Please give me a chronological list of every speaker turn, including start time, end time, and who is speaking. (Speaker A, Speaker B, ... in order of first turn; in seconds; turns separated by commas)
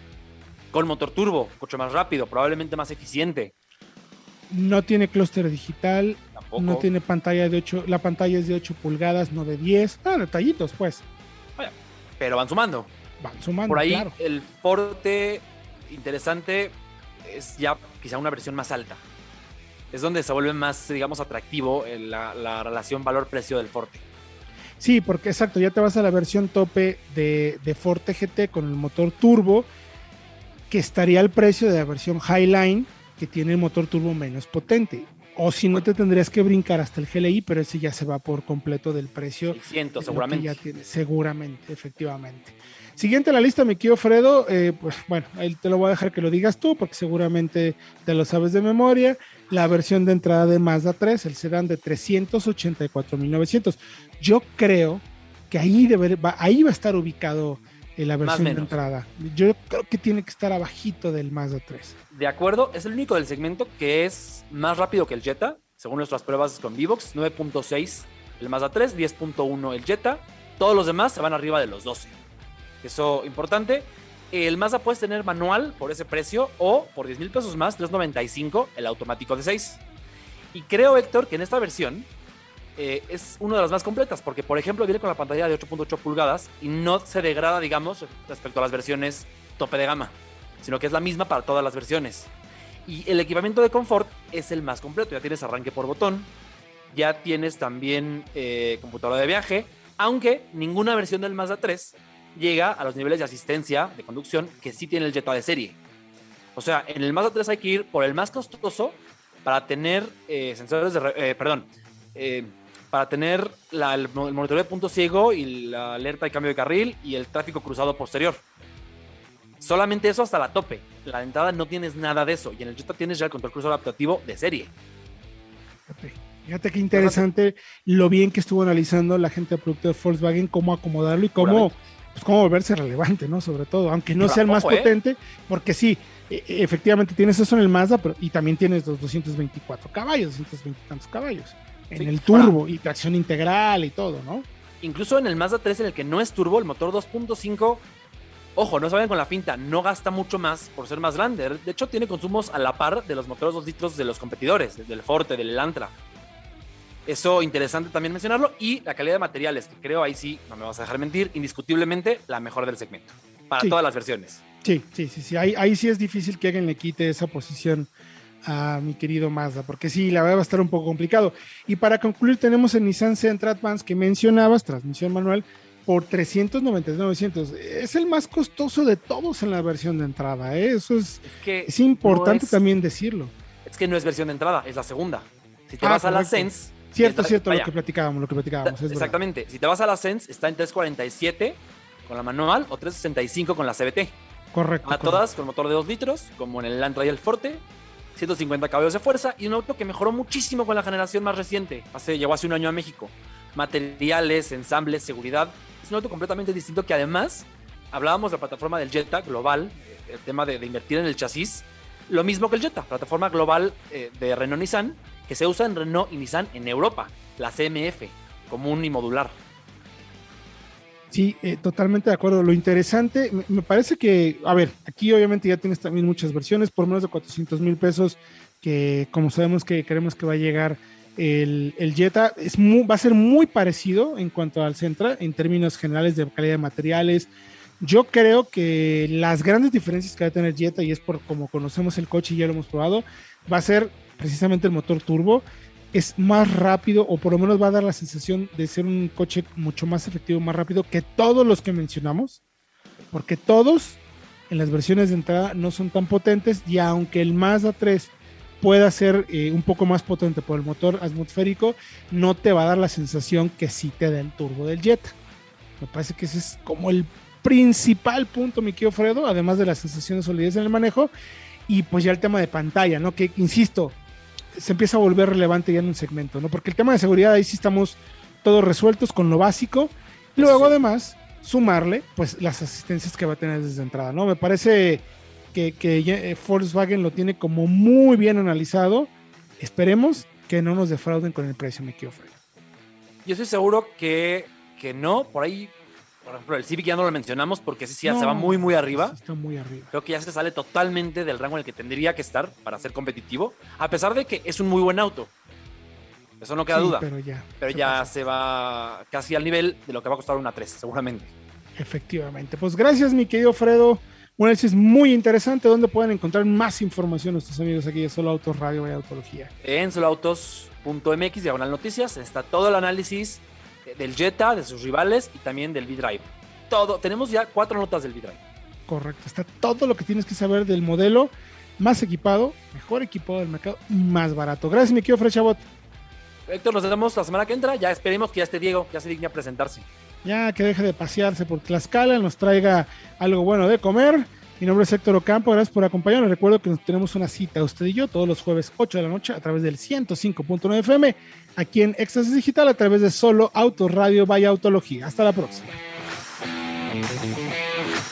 Speaker A: 0.7-3.5, Speaker B: 4.5-11.0, Speaker A: 6.3-6.9, Speaker A: 11.6-12.9, Speaker B: 13.2-14.1, Speaker A: 13.7-19.0, Speaker A: 19.9-24.0, Speaker B: 24.8-29.7, Speaker B: 30.7-62.0, Speaker A: 39.5-40.6, Speaker A: 58.2-58.8, Speaker A: 62.1-72.2, Speaker A: 72.8-79.8, Speaker A: 80.5-82.1, Speaker A: 82.8-92.3, Speaker A: 92.9-96.3, Speaker A: 96.9-105.8, Speaker A: 106.5-118.4, Speaker A: 119.6-124.7, Speaker B: 125.9-144.4, Speaker A: 126.9-127.3, Speaker A: 131.4-131.7, Speaker A: 134.2-134.9, Speaker A: 141.9-142.6, Speaker A: 144.8-147.8, Speaker A: 148.6-155.9, Speaker A: 157.1-164.4, Speaker B: 164.6-167.9, Speaker B: 168.4-183.3, Speaker A: 181.2-182.6, Speaker A: 183.7-187.7, Speaker B: 185.8-189.2, Speaker A: 188.6-194.2, Speaker B: 194.5-195.2, Speaker A: 194.8-197.6, Speaker A: 198.2-219.4, Speaker B: 221.1-237.3, Speaker B: 237.8-252.4, Speaker B: 253.1-265.1, Speaker B: 265.8-271.1, Speaker B: 271.7-274.0, Speaker B: 274.5-292.3, Speaker A: 280.4-280.8, Speaker A: 293.2-295.7, Speaker A: 296.2-299.1, Speaker B: 298.0-299.9, Speaker A: 299.9-305.3, Speaker A: 306.4-307.1, Speaker B: 306.7-308.1, Speaker A: 307.6-311.3, Speaker B: 311.8-319.5, Speaker A: 319.6-328.4, Speaker B: 328.9-335.6, Speaker A: 336.5-339.9, Speaker B: 340.2-355.8